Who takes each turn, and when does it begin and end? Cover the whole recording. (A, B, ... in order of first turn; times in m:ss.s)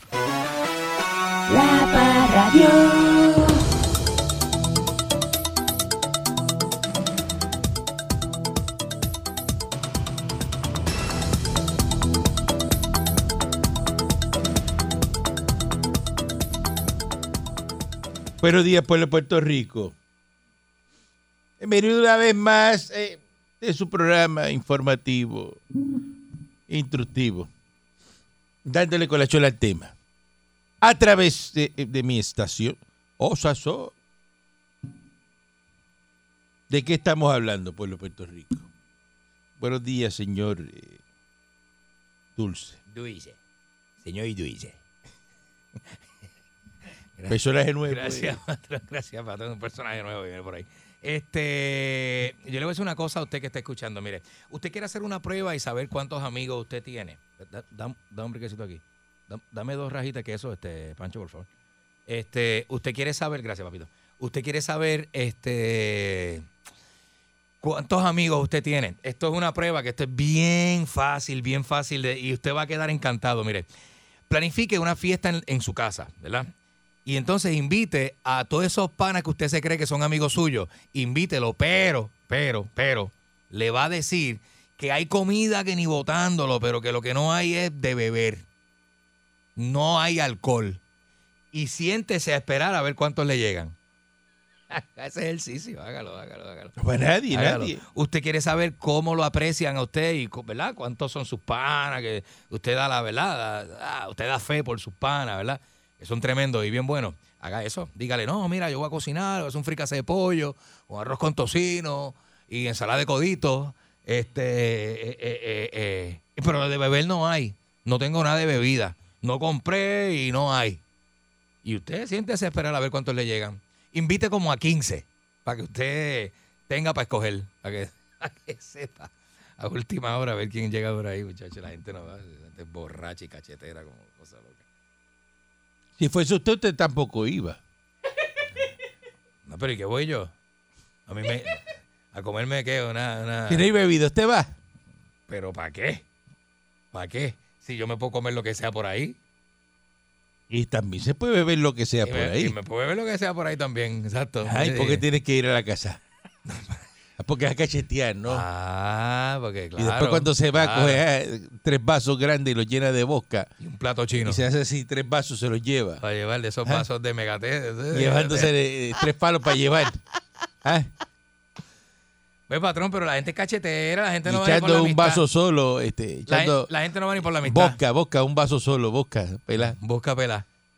0:01.5-0:03.6 A
0:18.4-0:19.9 B
0:21.6-0:25.6 B
0:26.7-0:27.5 B
0:28.6-0:29.9 B
0:30.8-0:33.9 B
0:36.7-0:38.7 B
0:39.6-0:41.0 B
0:42.4-0:42.8 B
0:42.9-0:43.4 C
0:44.0-0:44.8 C
0:47.2-1:01.5 C
0:47.3-0:48.4 B
1:02.1-1:06.5 C
1:07.6-1:13.7 C
1:14.3-1:16.5 C
1:17.0-1:28.4 C
1:29.6-1:30.8 C
1:31.5-1:33.7 C
1:34.7-1:36.7 C
1:36.8-1:37.8 B
1:37.3-2:00.8 C
2:01.6-2:14.6 C
2:16.0-2:17.6 B
2:19.4-2:20.3 C
2:21.1-2:23.6 C
2:23.5-2:24.5 B
2:25.3-2:26.0 C
2:26.9-2:29.2 C
2:30.5-2:32.5 B
2:32.0-2:35.0 C
2:34.4-2:36.0 B
2:36.5-2:36.8 C
2:37.2-2:38.4 B
2:38.3-2:41.0 C
2:39.8-2:43.5 B
2:43.6-2:44.4 C
2:44.2-2:46.0 B
2:46.0-2:48.5 C
2:47.9-2:50.0 B
2:50.6-2:50.9 B
2:52.5-2:55.2 C
2:54.2-2:56.7 B
2:56.3-2:57.8 C
2:57.4-2:59.8 B
2:59.6-3:00.4 C